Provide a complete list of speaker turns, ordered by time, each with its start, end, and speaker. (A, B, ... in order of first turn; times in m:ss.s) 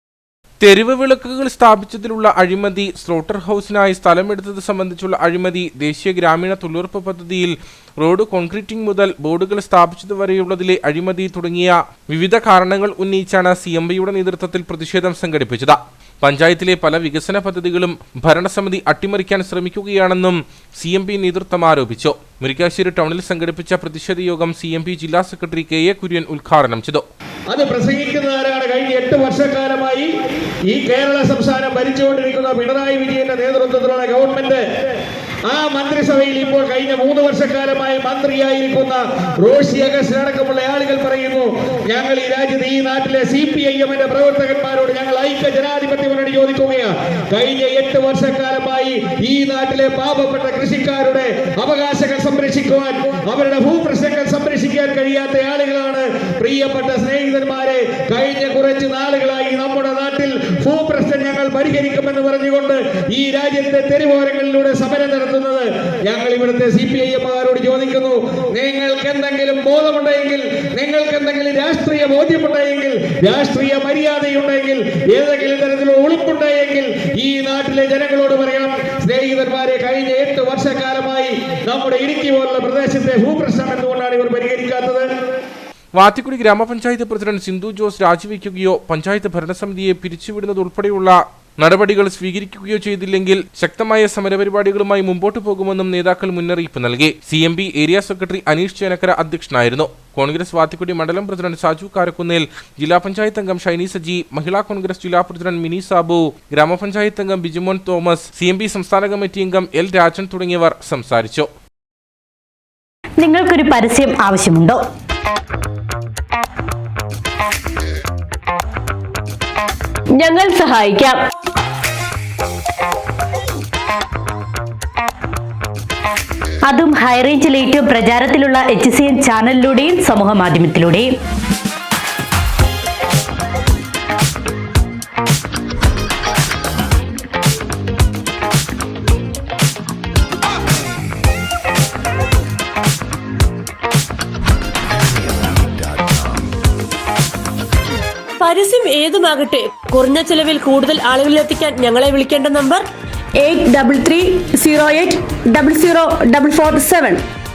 0:00.6-0:27.0 A
0:27.5-0:30.1 B
0:30.7-0:34.6 B
0:35.5-1:25.1 B
1:25.9-1:51.5 A
1:53.2-1:54.8 C
2:00.2-2:01.2 D
2:06.6-2:11.1 C
2:28.4-2:32.8 D
2:33.4-2:37.2 E